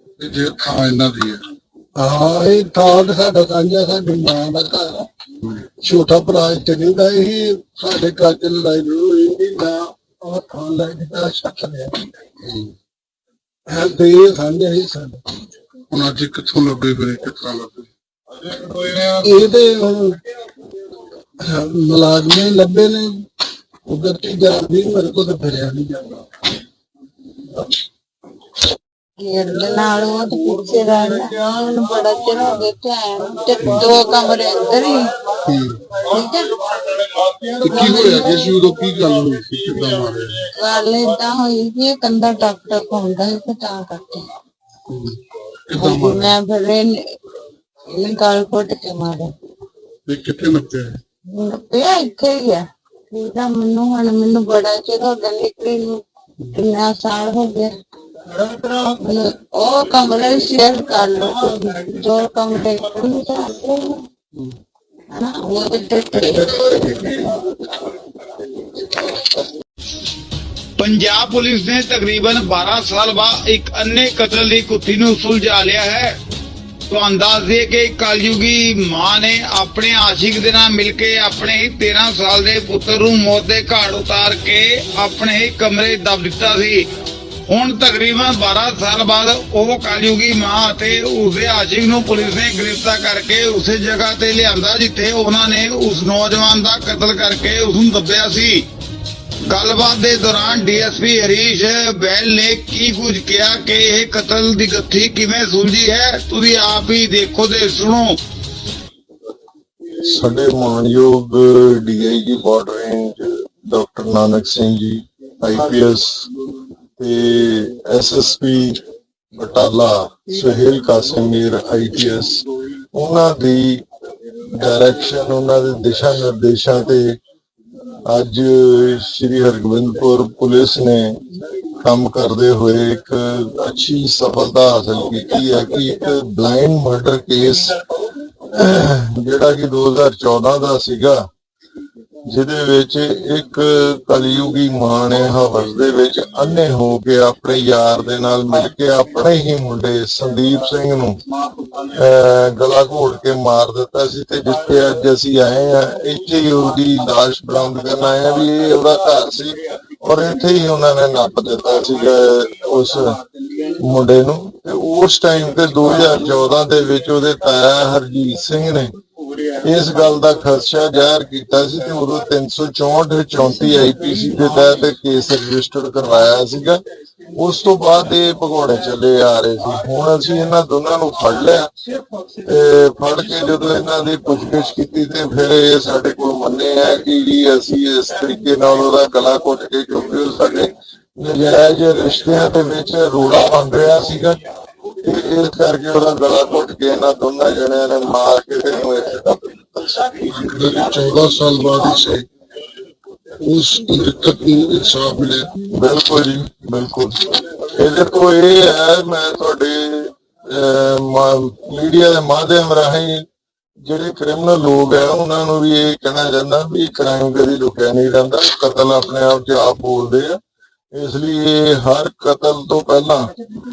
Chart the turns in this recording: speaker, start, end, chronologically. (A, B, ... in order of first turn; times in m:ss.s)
0:00.2-0:01.4 A
0:02.0-0:05.1 B
0:05.8-0:12.1 B
0:12.4-0:12.7 A
0:13.7-0:15.2 B
0:15.9-0:17.9 A
0:19.2-0:20.2 B
0:21.4-0:23.2 B
0:23.9-0:26.3 B
0:29.2-0:35.4 C
0:35.5-0:35.9 A
0:35.9-0:36.7 C
0:37.6-0:40.5 A
0:40.5-0:44.3 C
0:44.9-0:46.4 A
0:45.7-0:47.0 C
0:47.9-0:49.3 C
0:50.1-0:51.0 A
0:51.3-0:57.8 C
0:58.5-1:04.0 C
1:05.1-1:07.3 C
1:10.8-1:16.2 D
1:16.9-1:26.9 D
1:27.5-1:38.6 D
1:39.5-1:48.2 D
1:49.9-1:56.3 E
1:57.0-1:58.8 E
1:59.4-2:03.8 E
2:04.4-2:07.2 E
2:08.1-2:11.2 E
2:11.8-2:17.8 E
2:18.5-2:21.2 E
2:22.2-2:31.2 E
2:31.9-2:43.2 E
2:43.8-2:48.9 E
2:49.6-2:56.8 E
2:57.3-3:01.7 E
3:02.4-3:14.4 E
3:15.0-3:20.2 E
3:20.3-3:22.2 A
3:23.4-3:25.6 A
3:25.7-3:33.2 E
3:33.8-3:40.4 E
3:40.9-3:43.3 E